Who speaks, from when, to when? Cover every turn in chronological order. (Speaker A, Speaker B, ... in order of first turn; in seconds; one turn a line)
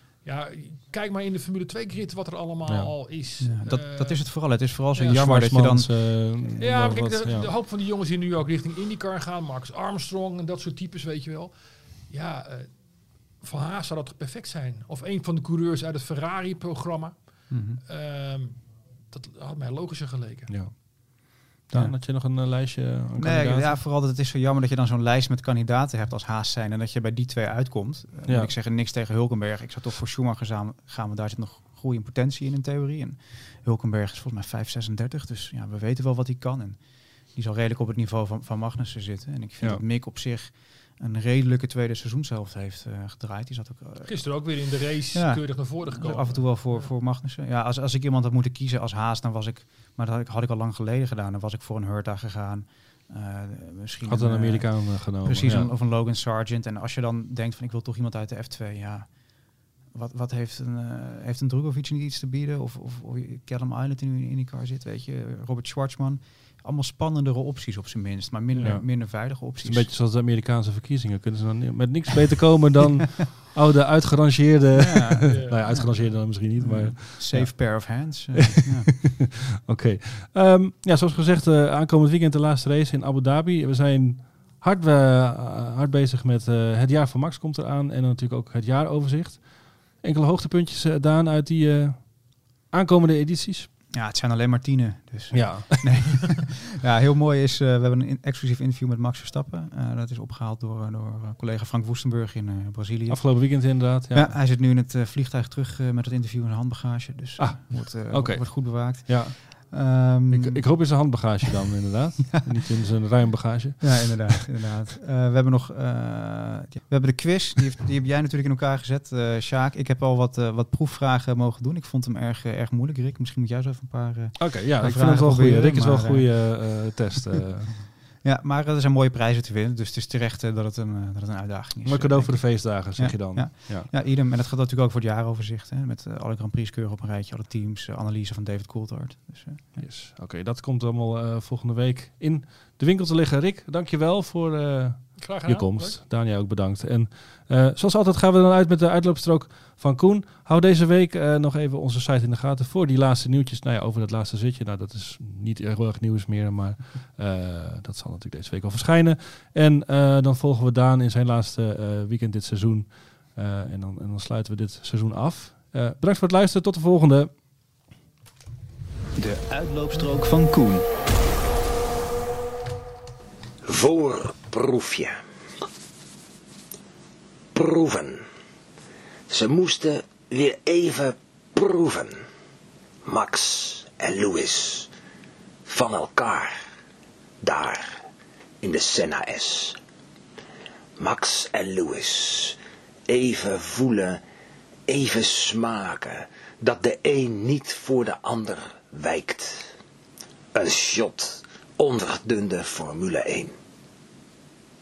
Speaker A: 0.2-5.2
Speaker B: 2.7-2.9
Speaker C: 3.4-6.6
Speaker B: 5.1-7.5
Speaker A: 6.6-20.5
Speaker C: 17.5-17.8
Speaker B: 20.5-23.8
Speaker C: 23.1-44.5
Speaker B: 28.3-28.5
Speaker A: 44.0-46.9
Speaker C: 45.1-69.9
Speaker B: 54.1-55.7
Speaker A: 68.5-68.8
Speaker B: 68.6-93.7
Speaker C: 74.7-79.0
Speaker A: 75.3-75.6
Speaker C: 93.9-111.2
Speaker B: 95.3-96.2
Speaker B: 103.1-104.4
Speaker B: 107.4-114.4
Speaker C: 113.8-127.0
Speaker B: 124.3-127.8
Speaker C: 128.2-139.8
Speaker B: 131.8-133.9
Speaker B: 139.8-167.3
Speaker A: 145.2-146.0
Speaker C: 169.2-170.8
Speaker D: 173.6-175.2
Speaker D: 177.5-178.2
Speaker D: 179.3-182.2
Speaker D: 183.0-184.9
Speaker D: 185.7-186.5
Speaker D: 187.4-188.0
Speaker D: 188.6-189.8
Speaker D: 191.0-194.2
Speaker D: 194.9-199.7
Speaker D: 200.5-203.5